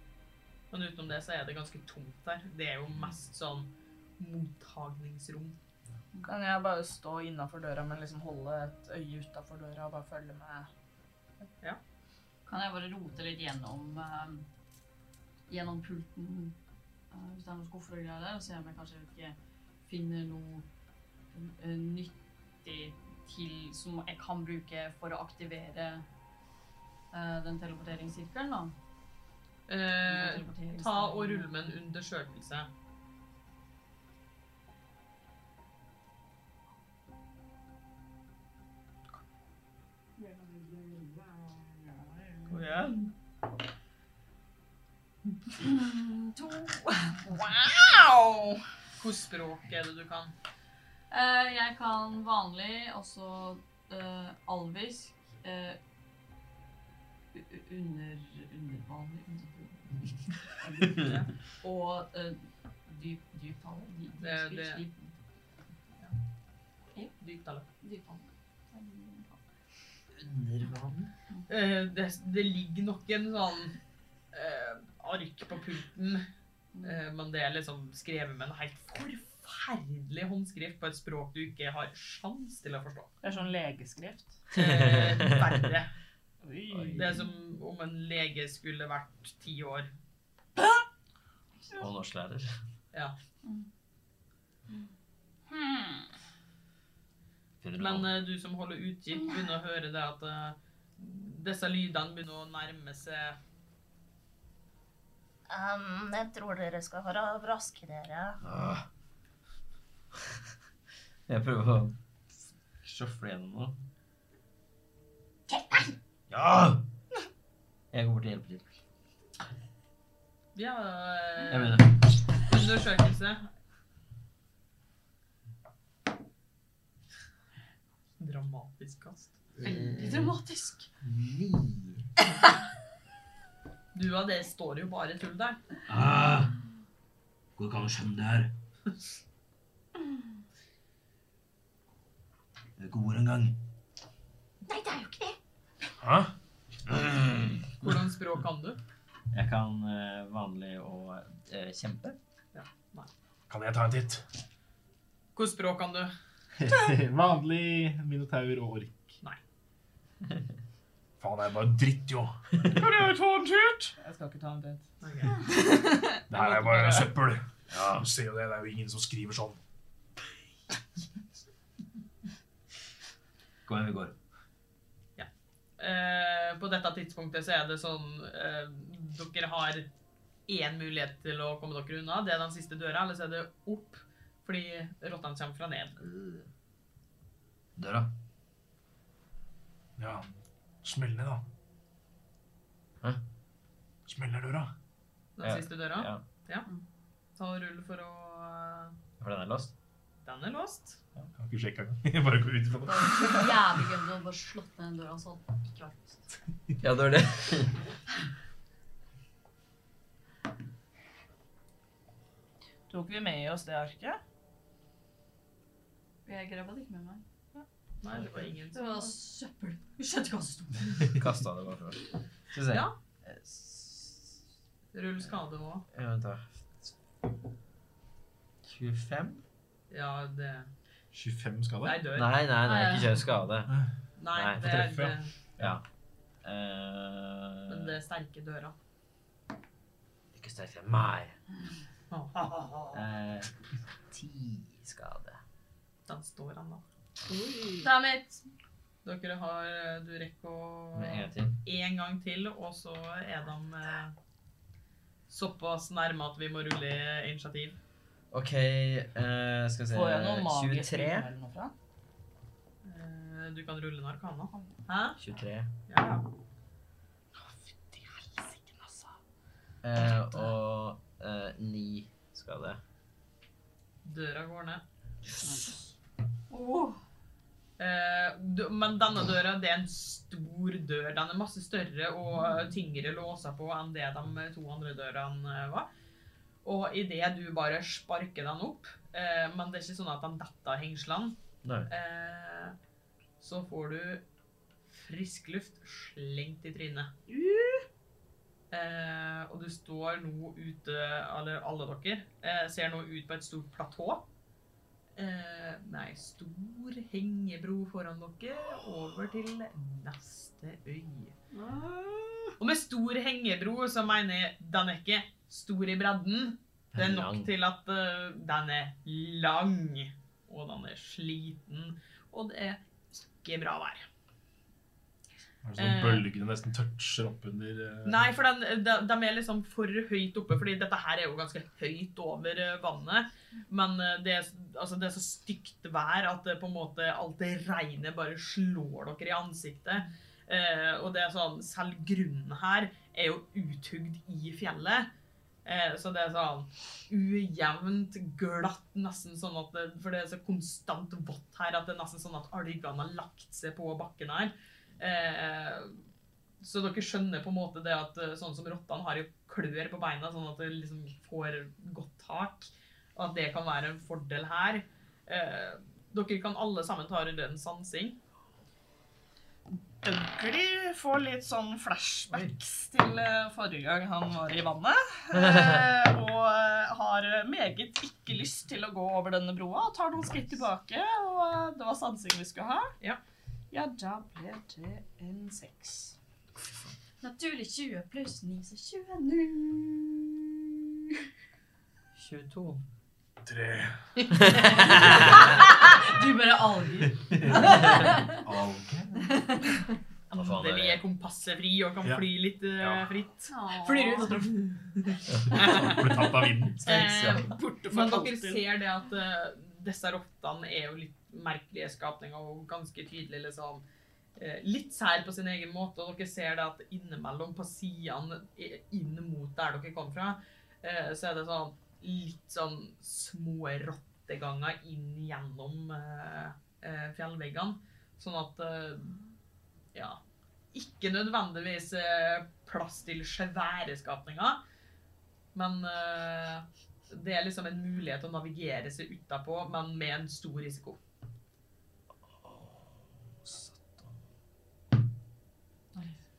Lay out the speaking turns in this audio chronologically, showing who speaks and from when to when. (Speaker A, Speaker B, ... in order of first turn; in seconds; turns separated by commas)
Speaker A: 0.7-5.5, Speaker B: 6.2-10.7, Speaker C: 12.4-14.4, Speaker C: 15.5-16.5, Speaker C: 17.1-20.6, Speaker C: 21.3-26.0, Speaker C: 27.1-28.7, Speaker A: 29.7-32.7, Speaker C: 30.0-31.5, Speaker B: 40.2-41.6, Speaker A: 42.5-43.1, Speaker B: 42.5-43.0, Speaker C: 45.6-47.2, Speaker B: 47.2-48.6, Speaker A: 49.0-50.3, Speaker C: 51.1-55.8, Speaker C: 57.3-65.2, Speaker A: 61.0-61.3, Speaker A: 64.2-64.8, Speaker A: 67.2-67.7, Speaker C: 67.8-69.4, Speaker D: 70.2-71.1, Speaker A: 71.5-73.8, Speaker A: 74.3-76.2, Speaker C: 76.7-77.0, Speaker A: 76.8-83.1, Speaker B: 83.2-84.3, Speaker A: 84.5-85.9, Speaker D: 84.5-85.5, Speaker B: 86.4-87.2, Speaker D: 86.7-87.0, Speaker A: 86.9-89.9, Speaker D: 91.8-92.5, Speaker C: 95.5-95.9, Speaker D: 97.6-98.1, Speaker A: 97.8-103.4, Speaker E: 105.5-108.4, Speaker D: 108.4-108.8, Speaker D: 111.3-111.9, Speaker D: 112.8-113.8, Speaker D: 116.3-116.8, Speaker D: 117.9-118.7, Speaker A: 120.5-123.5, Speaker D: 121.5-122.0, Speaker A: 128.2-129.4, Speaker D: 129.6-130.3, Speaker C: 129.6-130.9, Speaker D: 131.0-132.1, Speaker A: 133.9-135.6, Speaker D: 135.9-136.6, Speaker D: 137.6-138.5, Speaker D: 142.8-143.6, Speaker C: 144.7-145.2, Speaker F: 146.0-146.3, Speaker D: 146.9-147.9, Speaker A: 147.8-148.8, Speaker D: 149.3-152.2, Speaker A: 152.5-153.1, Speaker F: 153.5-154.2, Speaker A: 155.3-156.1, Speaker F: 156.6-159.2, Speaker F: 161.2-162.3, Speaker B: 162.7-164.8, Speaker A: 165.0-165.5, Speaker F: 166.3-167.4, Speaker A: 166.3-167.1, Speaker D: 167.7-168.1, Speaker F: 167.9-169.6, Speaker D: 173.7-174.1, Speaker A: 175.2-179.9, Speaker A: 180.5-186.0, Speaker D: 186.0-186.4, Speaker D: 187.8-188.1, Speaker F: 190.0-190.3, Speaker F: 190.8-191.4, Speaker F: 194.1-194.7, Speaker A: 195.4-196.7, Speaker D: 195.4-196.2, Speaker A: 197.3-198.9, Speaker D: 199.2-199.7, Speaker A: 200.2-201.0, Speaker F: 201.4-203.6, Speaker C: 202.9-206.3, Speaker D: 206.8-207.8, Speaker B: 212.9-214.2, Speaker C: 216.2-217.2, Speaker A: 218.0-219.1, Speaker C: 218.7-221.2, Speaker D: 221.1-224.3, Speaker A: 224.9-225.8, Speaker D: 225.9-226.9, Speaker D: 228.6-229.4, Speaker A: 229.9-230.7, Speaker F: 231.1-232.0, Speaker A: 231.8-232.3, Speaker D: 232.2-233.7, Speaker C: 232.6-233.2, Speaker A: 234.2-235.3, Speaker D: 234.3-235.8, Speaker F: 234.6-235.8, Speaker D: 236.4-237.9, Speaker A: 237.7-238.7, Speaker D: 240.3-241.3, Speaker A: 242.1-243.0, Speaker D: 242.9-243.6, Speaker D: 244.1-245.4, Speaker A: 246.1-246.8, Speaker B: 247.3-247.9, Speaker C: 248.0-248.4, Speaker A: 249.0-254.1, Speaker D: 250.9-251.6, Speaker A: 255.3-257.8, Speaker D: 258.3-261.3, Speaker B: 259.9-261.7, Speaker A: 262.8-265.2, Speaker D: 265.2-265.7, Speaker A: 265.9-266.2, Speaker B: 267.4-269.1, Speaker D: 269.8-272.8, Speaker A: 274.0-274.8, Speaker B: 275.4-275.7, Speaker C: 276.5-277.0, Speaker A: 277.8-285.9, Speaker A: 286.6-291.4, Speaker A: 291.9-292.8, Speaker A: 293.4-294.2, Speaker A: 294.9-297.1, Speaker B: 297.3-297.8, Speaker A: 298.7-304.2, Speaker A: 305.2-311.3, Speaker B: 311.5-312.5, Speaker A: 312.6-324.1, Speaker D: 316.9-317.5, Speaker F: 325.6-328.2, Speaker A: 325.8-326.3, Speaker A: 328.0-345.1, Speaker A: 345.6-356.0, Speaker A: 356.6-368.2, Speaker B: 370.0-382.9, Speaker B: 383.7-386.1, Speaker C: 387.2-391.2, Speaker D: 392.2-392.8, Speaker F: 393.4-394.0, Speaker D: 394.3-395.6, Speaker C: 395.2-398.4, Speaker D: 397.5-397.9, Speaker F: 398.3-399.3, Speaker C: 399.3-399.8, Speaker A: 400.3-406.2, Speaker D: 400.3-401.0, Speaker F: 402.8-403.1, Speaker B: 403.5-404.5, Speaker C: 403.6-404.3, Speaker F: 405.5-407.1, Speaker A: 406.8-413.8, Speaker B: 406.9-408.6, Speaker D: 407.2-407.4, Speaker A: 414.4-429.2, Speaker A: 429.9-430.2, Speaker A: 430.7-434.6, Speaker A: 435.5-441.0, Speaker D: 442.4-442.9, Speaker D: 443.4-444.1